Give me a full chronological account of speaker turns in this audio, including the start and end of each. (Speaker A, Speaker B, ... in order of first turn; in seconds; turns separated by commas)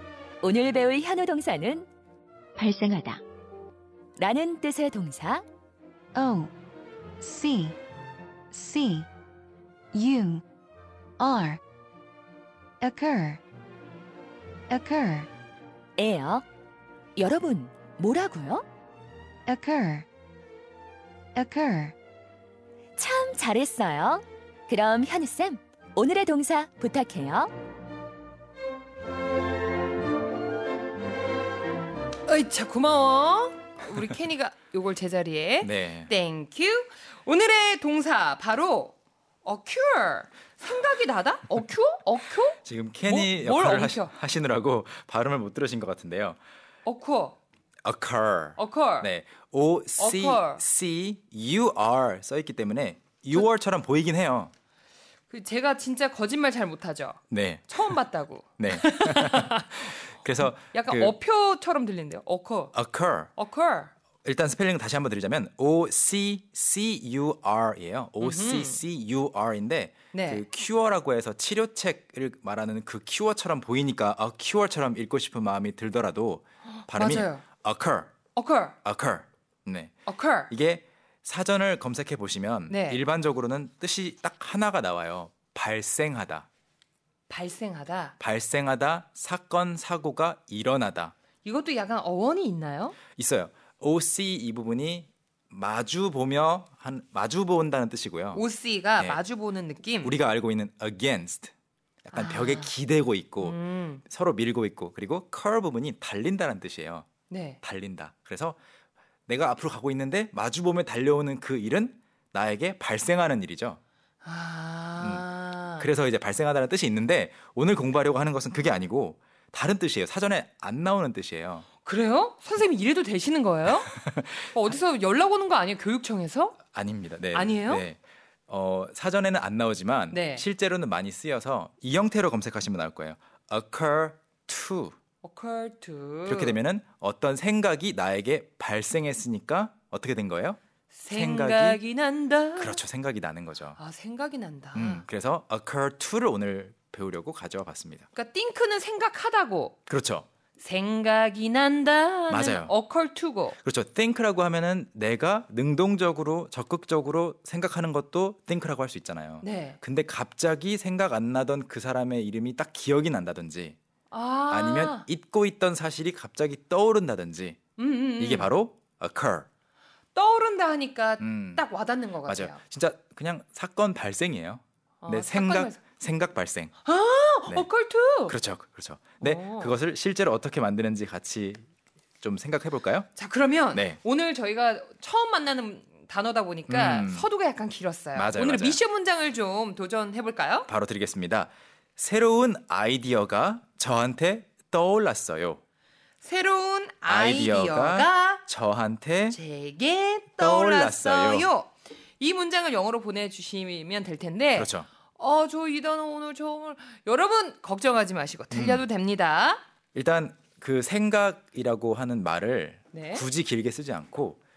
Speaker A: 0.4-1.9, Speaker A: 2.6-3.2, Speaker A: 4.2-5.5, Speaker B: 6.1-6.5, Speaker B: 7.2-7.8, Speaker B: 8.5-9.1, Speaker B: 9.9-10.4, Speaker B: 11.2-11.6, Speaker B: 12.8-13.4, Speaker B: 14.7-15.3, Speaker A: 16.0-16.4, Speaker A: 17.2-18.6, Speaker B: 19.5-20.1, Speaker B: 21.4-21.9, Speaker A: 23.0-27.5, Speaker C: 32.3-44.1, Speaker D: 35.6-36.1, Speaker D: 42.6-46.4, Speaker C: 46.9-47.4, Speaker D: 47.8-54.5, Speaker C: 48.6-49.1, Speaker C: 50.0-50.6, Speaker C: 55.3-62.8, Speaker D: 57.3-58.0, Speaker D: 58.6-61.2, Speaker D: 62.7-63.3, Speaker C: 63.4-63.9, Speaker D: 64.2-78.1, Speaker C: 68.2-68.8, Speaker C: 70.1-70.5, Speaker C: 76.8-77.4, Speaker C: 78.3-78.8, Speaker D: 78.8-86.5, Speaker C: 80.1-80.5, Speaker C: 82.7-83.0, Speaker C: 87.3-88.2, Speaker D: 88.2-91.1, Speaker C: 91.4-93.0, Speaker D: 93.2-98.5, Speaker C: 98.3-100.2, Speaker D: 100.0-101.5, Speaker D: 102.0-107.1, Speaker C: 102.1-102.7, Speaker C: 103.4-104.0, Speaker C: 107.3-107.6, Speaker D: 107.6-108.6, Speaker D: 109.3-113.8, Speaker C: 114.2-115.9, Speaker D: 115.0-121.7, Speaker C: 121.8-126.6, Speaker D: 123.9-124.5, Speaker D: 126.7-135.0, Speaker C: 127.3-127.9, Speaker C: 130.1-130.5, Speaker C: 135.2-136.6, Speaker D: 136.3-141.8, Speaker C: 140.9-142.8, Speaker D: 142.6-143.8, Speaker C: 143.8-145.0, Speaker D: 144.7-148.1, Speaker C: 148.1-149.8, Speaker D: 149.9-150.3, Speaker C: 150.6-153.6, Speaker D: 152.3-152.8, Speaker D: 153.6-163.8, Speaker C: 159.4-159.8, Speaker C: 164.1-165.1, Speaker D: 164.5-167.6, Speaker C: 167.8-168.5, Speaker D: 168.2-169.5, Speaker C: 170.2-172.6, Speaker D: 171.2-171.7, Speaker D: 172.2-176.8, Speaker C: 175.0-175.8, Speaker C: 176.8-178.4, Speaker D: 178.3-181.7, Speaker C: 179.2-179.8, Speaker D: 182.2-183.1, Speaker C: 183.2-190.7, Speaker D: 183.7-184.0, Speaker D: 186.7-187.3, Speaker D: 188.2-188.8, Speaker D: 190.7-195.6, Speaker C: 196.2-198.4, Speaker D: 197.1-199.4, Speaker C: 199.3-209.6, Speaker D: 200.4-201.5, Speaker D: 204.6-204.9, Speaker D: 208.5-208.8, Speaker D: 209.9-214.4, Speaker C: 212.9-213.2